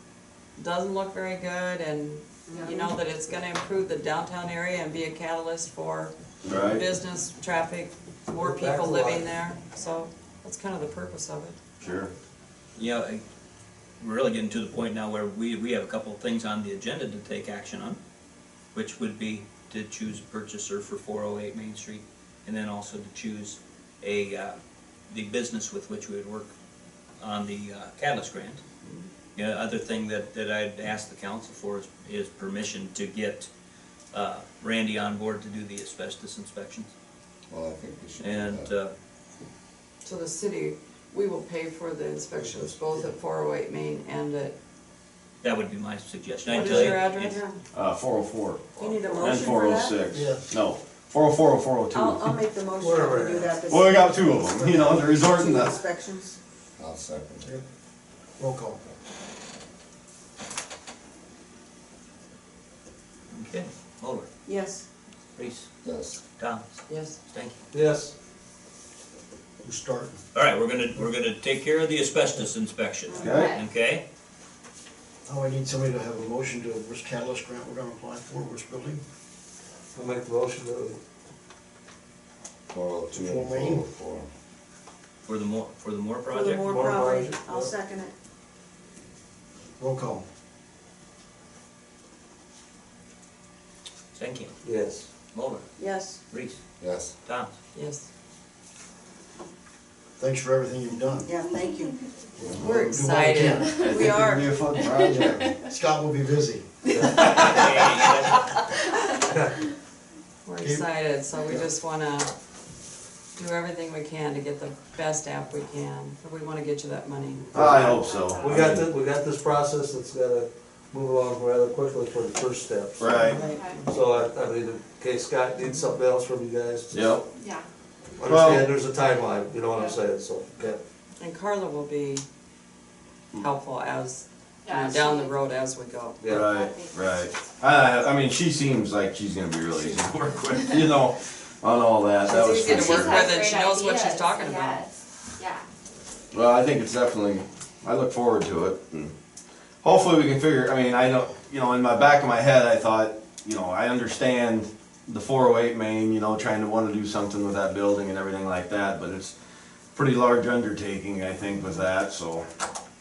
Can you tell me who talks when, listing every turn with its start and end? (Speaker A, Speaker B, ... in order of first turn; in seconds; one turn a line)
Speaker A: 0.6-11.6
Speaker B: 2.5-2.7
Speaker C: 2.6-2.9
Speaker D: 6.4-6.8
Speaker E: 8.3-9.3
Speaker D: 11.8-12.1
Speaker F: 12.8-13.2
Speaker F: 14.0-18.0
Speaker F: 18.7-24.6
Speaker F: 25.1-26.5
Speaker F: 27.2-28.6
Speaker A: 28.8-29.1
Speaker F: 29.4-33.5
Speaker F: 34.1-36.9
Speaker G: 37.5-38.7
Speaker F: 38.2-38.9
Speaker A: 40.0-44.5
Speaker F: 45.4-47.4
Speaker E: 46.5-47.1
Speaker A: 46.6-47.5
Speaker B: 47.3-47.6
Speaker D: 47.7-52.4
Speaker A: 48.8-49.3
Speaker B: 48.8-50.0
Speaker H: 50.1-50.4
Speaker B: 51.9-56.4
Speaker E: 52.8-53.6
Speaker D: 53.7-55.8
Speaker G: 56.8-57.5
Speaker H: 58.4-58.8
Speaker F: 63.3-64.3
Speaker B: 64.5-64.8
Speaker F: 65.4-65.7
Speaker G: 65.8-66.2
Speaker F: 66.4-66.7
Speaker A: 66.9-67.2
Speaker F: 67.3-67.6
Speaker E: 67.7-68.1
Speaker H: 69.6-70.2
Speaker F: 70.3-74.0
Speaker D: 73.2-73.5
Speaker C: 73.2-73.7
Speaker H: 75.3-79.0
Speaker E: 80.0-81.0
Speaker G: 82.7-84.3
Speaker H: 83.1-83.8
Speaker F: 85.3-86.7
Speaker B: 86.3-88.1
Speaker E: 86.7-87.7
Speaker H: 89.8-90.3
Speaker F: 94.1-94.5
Speaker E: 94.6-95.1
Speaker F: 95.3-95.7
Speaker B: 95.8-96.2
Speaker F: 96.3-96.6
Speaker G: 96.8-97.1
Speaker F: 97.2-97.5
Speaker A: 97.8-98.1
Speaker H: 100.2-101.3
Speaker B: 101.2-102.0
Speaker H: 102.4-106.7
Speaker G: 102.4-102.7
Speaker A: 102.6-103.7
Speaker B: 103.7-105.1
Speaker D: 103.8-105.4
Speaker E: 106.9-107.8
Speaker F: 107.2-108.6
Speaker E: 109.3-109.5
Speaker A: 110.5-112.3
Speaker H: 110.6-110.9
Speaker A: 113.4-117.7
Speaker D: 117.5-118.7
Speaker E: 117.5-123.2
Speaker C: 117.9-118.8
Speaker D: 123.0-123.4
Speaker A: 123.0-123.9
Speaker C: 123.4-123.8
Speaker E: 123.8-127.1
Speaker A: 125.6-126.0
Speaker D: 126.9-127.2
Speaker C: 127.4-127.7
Speaker E: 128.2-130.8
Speaker D: 128.2-128.7
Speaker A: 131.2-132.2
Speaker A: 133.4-136.3
Speaker C: 134.7-135.3
Speaker E: 136.2-136.5
Speaker D: 136.3-143.3
Speaker C: 136.4-137.4
Speaker A: 142.2-144.8
Speaker C: 142.7-145.7
Speaker D: 146.3-149.1
Speaker D: 149.8-159.3
Speaker D: 159.9-162.5